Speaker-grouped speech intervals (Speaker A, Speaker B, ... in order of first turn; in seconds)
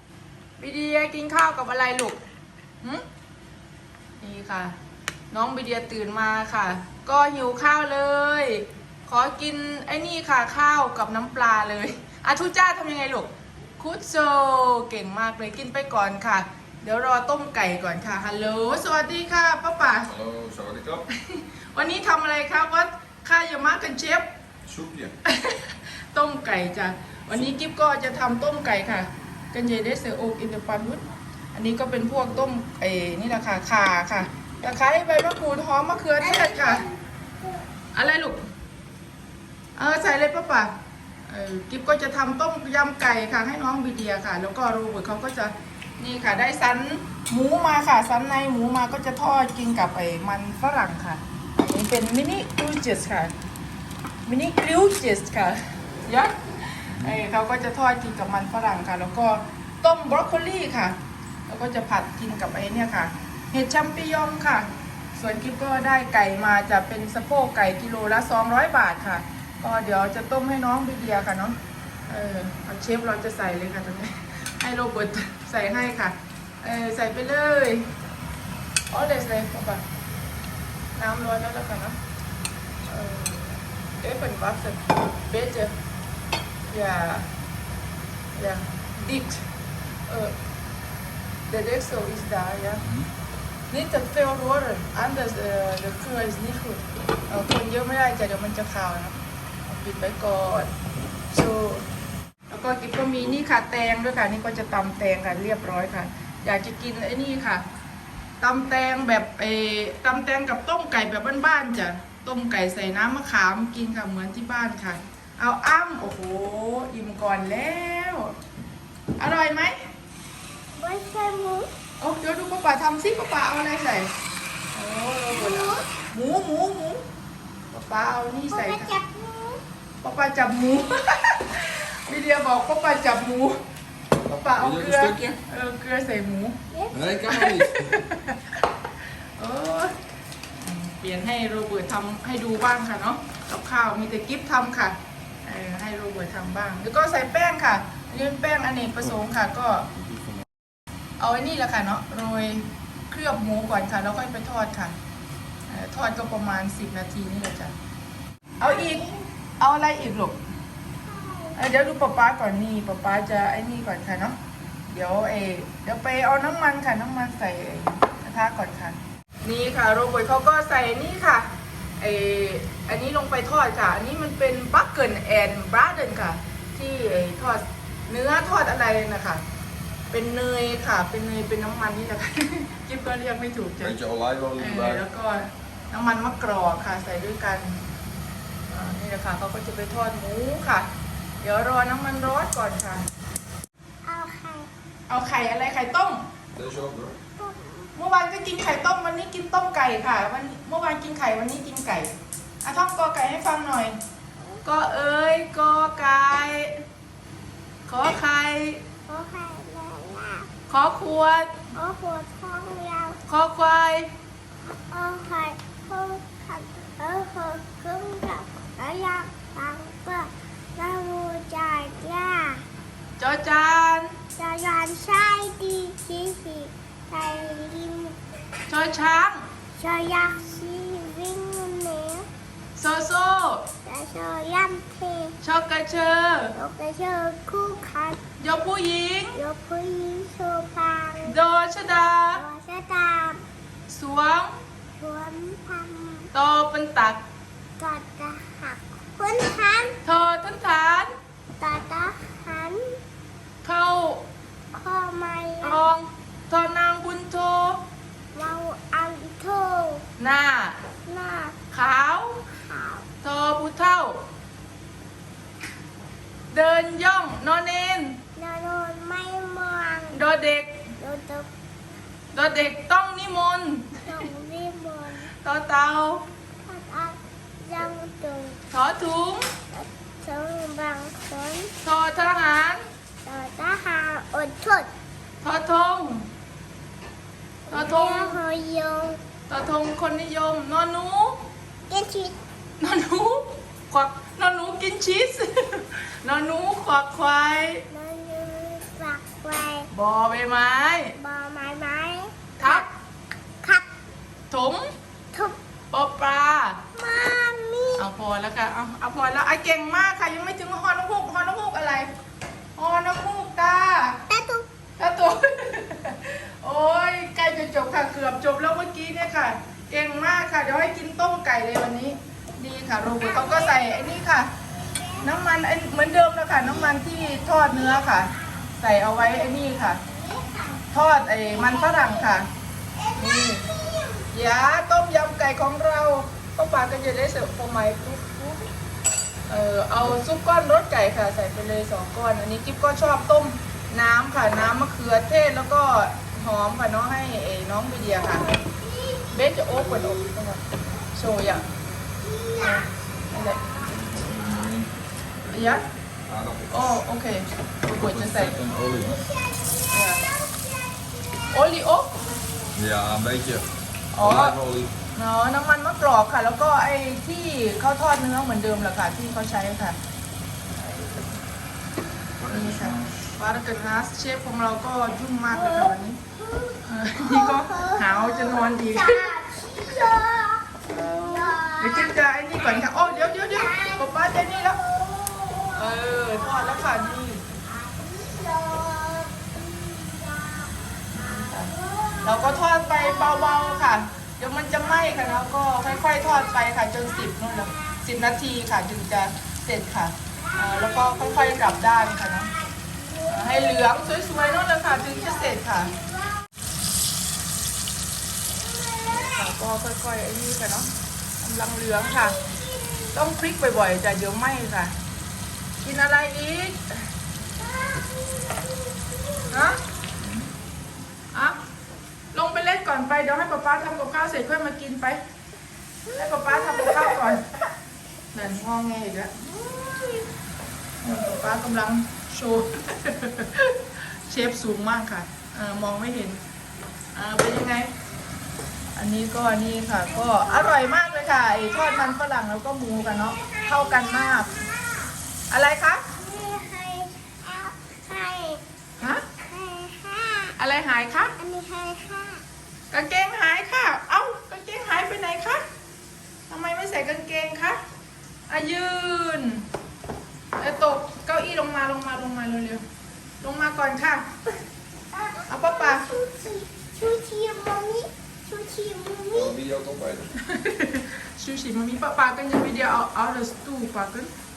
Speaker A: 0.6-2.2, 4.2-4.7, 5.3-20.1, 21.1-24.3, 25.2-31.0, 31.5-36.8, 37.9-38.4, 39.8-40.7, 41.3-53.3, 54.2-71.6, 72.1-77.9, 78.9-79.8, 80.9-82.0, 82.9-85.7, 86.7-87.3, 88.3-89.5, 90.1-90.3, 91.5-92.8, 93.7-100.7, 101.3-101.9, 102.5-107.6, 108.4-118.4, 119.2-119.9, 122.0-124.1, 124.7-127.0, 127.7-128.9, 130.0-133.6, 134.3-136.6, 137.3-138.6, 139.4-139.9, 140.6-149.9, 151.2-154.9, 155.7-157.7, 158.6-159.0, 159.6-160.4, 161.5-164.3, 164.9-179.4, 180.1-183.9, 184.6-187.8, 188.7-190.9, 191.4-193.0, 195.1-196.2, 197.9-204.0, 204.6-206.8, 207.8-208.8, 210.7-211.7, 213.3-214.1, 223.2-224.1, 228.7-229.5, 232.8-233.7, 235.4-236.5, 238.4-239.4, 241.2-242.4, 243.9-244.5, 246.3-247.2, 250.0-251.1, 253.6-254.3, 255.6-257.8, 260.2-260.8, 261.7-262.4, 263.2-264.3, 266.5-268.2, 270.1-270.8, 272.3-274.2, 275.4-276.2, 278.7-279.4, 281.8-282.8, 285.4-286.3, 287.7-288.4, 289.5-291.4, 292.8-297.8, 299.9-301.1, 302.6-302.9, 304.5-304.9, 305.9-306.8, 308.0-312.1, 312.8-314.2, 315.0-324.5, 325.2-330.0, 330.9-332.5, 333.1-333.6, 334.3-338.6, 339.5-348.4, 349.3-350.6, 351.1-351.6, 352.6-353.7, 355.5-355.8, 356.7-358.6, 359.9-360.2, 361.5-362.1, 364.1-364.6, 365.1-370.0, 370.7-371.4, 372.4-376.2, 376.8-379.3, 380.8-384.8, 385.8-387.4, 391.1-391.7, 392.2-402.5, 403.3-405.9, 409.1-412.4, 413.1-414.9, 415.8-417.0, 419.5-419.8, 421.3-421.6, 422.3-425.2, 426.1-427.5, 428.3-429.4, 431.0-436.4, 437.1-437.9, 438.9-444.5, 445.5-446.1, 449.0-449.2, 450.6-451.3, 452.9-455.6, 456.5-457.8, 458.5-459.6, 460.6-462.8, 463.4-464.3, 465.5-466.1, 470.4-474.3
Speaker B: 20.0-21.1, 24.6-25.1, 134.3-135.4, 136.9-138.0, 183.8-185.0, 196.5-197.2, 353.9-354.9, 355.4-357.0, 357.9-359.2, 362.7-363.6, 364.2-364.9, 372.4-373.1, 420.2-420.5, 469.3-470.3
Speaker C: 36.2-37.6, 120.7-121.7, 125.3-125.9, 128.5-129.6, 136.7-137.5, 158.6-159.2, 161.0-161.6, 194.0-194.7, 197.4-197.9, 209.1-210.5, 211.7-213.2, 214.9-222.6, 224.4-228.2, 229.8-232.3, 233.8-235.4, 236.6-238.2, 239.3-241.4, 242.3-243.4, 245.0-246.3, 247.8-250.0, 251.6-253.0, 254.7-255.8, 258.3-260.0, 261.1-261.6, 262.6-263.1, 268.4-270.2, 271.0-271.5, 274.1-275.3, 276.6-278.6, 279.7-281.7, 283.2-284.9, 287.7-289.2, 291.9-292.4, 297.9-299.9, 301.2-302.9, 306.9-308.0, 314.3-314.6, 323.2-325.3, 326.6-330.9, 331.4-332.3, 332.9-334.3, 348.2-350.3, 352.2-353.9, 359.0-362.8, 375.5-394.1, 394.6-398.0, 400.3-406.4, 408.5-409.5, 412.0-413.1, 417.6-419.7, 426.1-427.4, 429.5-430.2, 440.1-442.2, 442.9-445.1, 446.2-448.6, 449.5-450.6, 451.4-452.4, 465.1-469.6